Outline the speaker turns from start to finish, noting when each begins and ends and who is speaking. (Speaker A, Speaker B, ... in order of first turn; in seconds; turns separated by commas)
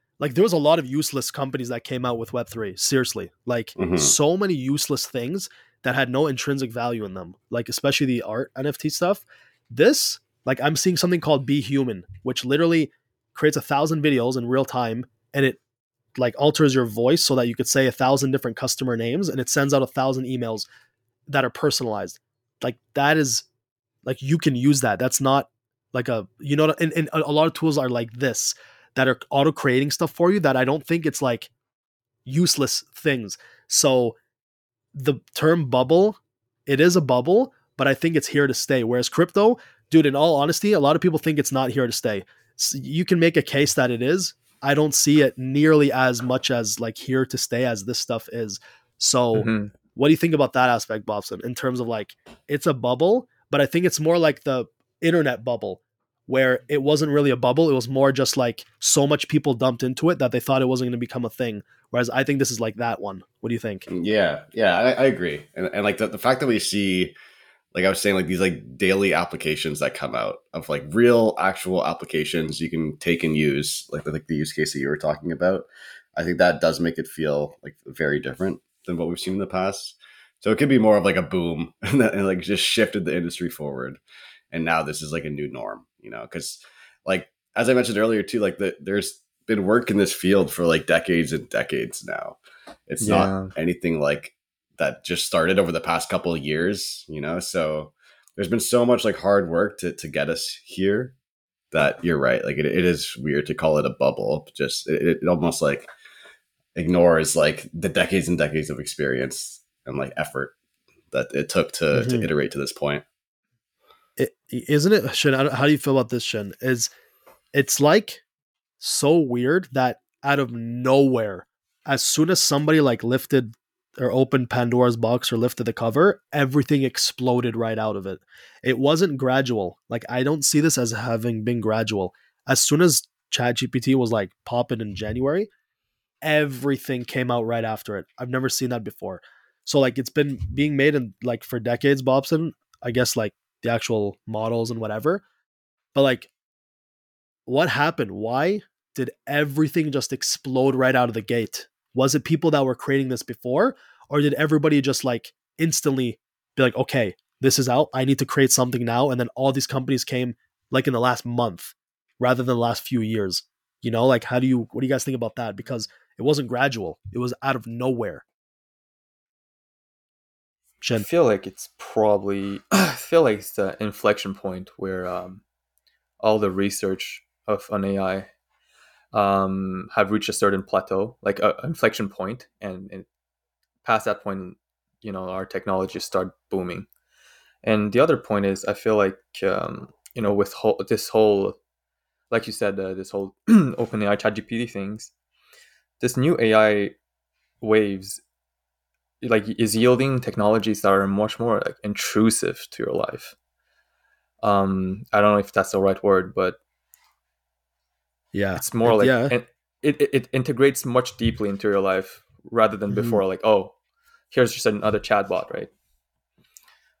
Speaker A: 0.2-15.6, Speaker B: 3.8-4.1, Speaker A: 16.2-20.7, Speaker A: 21.3-23.4, Speaker A: 24.0-31.5, Speaker A: 32.2-34.2, Speaker A: 34.9-63.9, Speaker C: 49.3-49.7, Speaker B: 63.9-67.1, Speaker B: 67.7-101.1, Speaker C: 93.0-93.5, Speaker B: 101.7-105.9, Speaker B: 106.7-110.5, Speaker B: 111.1-113.0, Speaker A: 111.9-112.3, Speaker A: 114.2-116.9, Speaker A: 117.5-118.2, Speaker A: 118.8-135.5, Speaker A: 136.2-145.2, Speaker A: 145.9-146.3, Speaker A: 147.5-168.2, Speaker A: 170.8-171.1, Speaker C: 171.0-175.4, Speaker C: 176.2-178.3, Speaker C: 179.1-183.1, Speaker C: 183.8-186.9, Speaker C: 187.6-191.6, Speaker C: 192.3-195.1, Speaker C: 196.0-196.9, Speaker C: 197.6-198.2, Speaker C: 199.2-203.3, Speaker C: 204.4-206.6, Speaker A: 208.3-209.3, Speaker C: 208.6-213.7, Speaker A: 212.9-213.2, Speaker C: 214.3-215.7